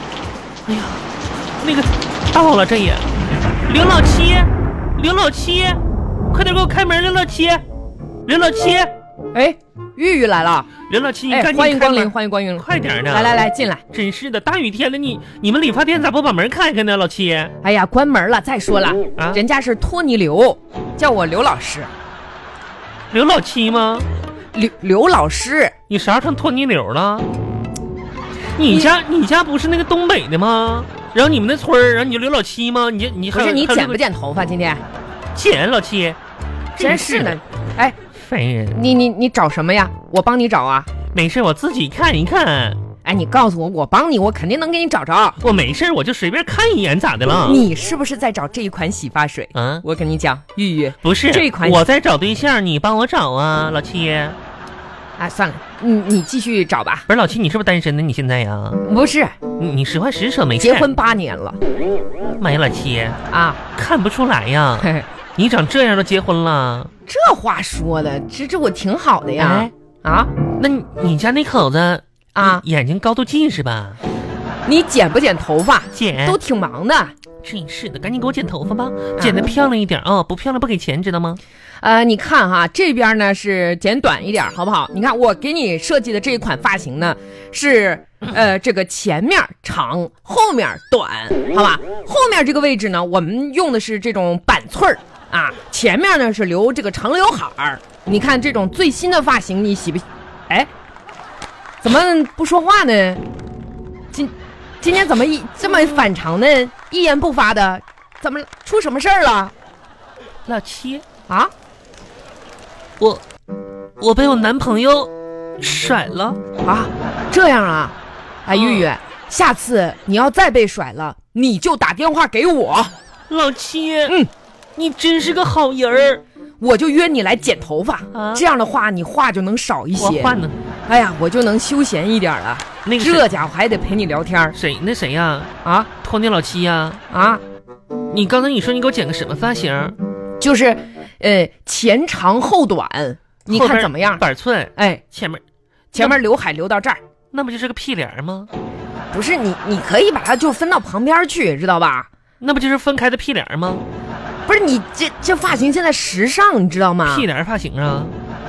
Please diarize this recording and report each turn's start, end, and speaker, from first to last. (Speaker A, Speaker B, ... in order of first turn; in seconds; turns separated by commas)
Speaker A: 0.7-1.0, Speaker A: 1.6-3.1, Speaker A: 3.7-5.8, Speaker A: 6.3-7.6, Speaker A: 8.2-8.9, Speaker B: 9.3-10.7, Speaker A: 10.9-13.4, Speaker B: 11.3-13.8, Speaker A: 13.9-17.5, Speaker B: 17.6-21.9, Speaker A: 19.2-19.4, Speaker A: 23.1-24.1, Speaker B: 24.5-25.7, Speaker A: 25.9-27.3, Speaker A: 28.6-34.0, Speaker B: 33.3-34.8, Speaker A: 35.3-36.2, Speaker B: 36.8-38.0, Speaker A: 36.8-37.4, Speaker A: 38.1-38.8, Speaker B: 38.7-40.9, Speaker A: 41.1-42.8, Speaker B: 43.0-45.4, Speaker A: 45.4-47.6, Speaker B: 47.4-51.8, Speaker A: 49.5-49.8, Speaker A: 51.0-54.4, Speaker B: 55.2-57.0, Speaker A: 57.1-58.8, Speaker B: 58.8-59.3, Speaker A: 59.6-60.9, Speaker B: 60.5-61.6, Speaker A: 62.4-63.2, Speaker B: 63.3-63.6, Speaker A: 63.8-66.9, Speaker B: 64.8-65.1, Speaker B: 67.1-70.3, Speaker A: 69.4-69.7, Speaker A: 70.6-74.0, Speaker B: 72.3-72.6, Speaker B: 74.7-77.1, Speaker A: 75.9-76.4, Speaker A: 77.4-81.4, Speaker B: 79.2-79.5, Speaker B: 81.8-100.7, Speaker B: 101.8-103.2, Speaker B: 104.1-109.5, Speaker A: 110.5-111.0, Speaker A: 114.0-116.4, Speaker B: 116.6-117.9, Speaker B: 118.5-122.9, Speaker A: 118.5-118.9, Speaker A: 123.3-124.2, Speaker A: 124.8-126.2, Speaker B: 126.6-130.3, Speaker A: 128.1-128.4, Speaker A: 130.0-130.6, Speaker B: 130.9-134.6, Speaker A: 132.8-133.3, Speaker A: 134.5-135.5, Speaker B: 135.6-135.9, Speaker A: 136.0-137.0, Speaker B: 137.1-137.4, Speaker A: 138.1-139.9, Speaker B: 140.4-144.2, Speaker A: 143.5-145.4, Speaker B: 144.8-145.0, Speaker B: 145.9-147.0, Speaker A: 147.3-148.5, Speaker B: 149.1-152.1, Speaker A: 152.4-153.8, Speaker B: 154.5-157.3, Speaker A: 157.1-158.2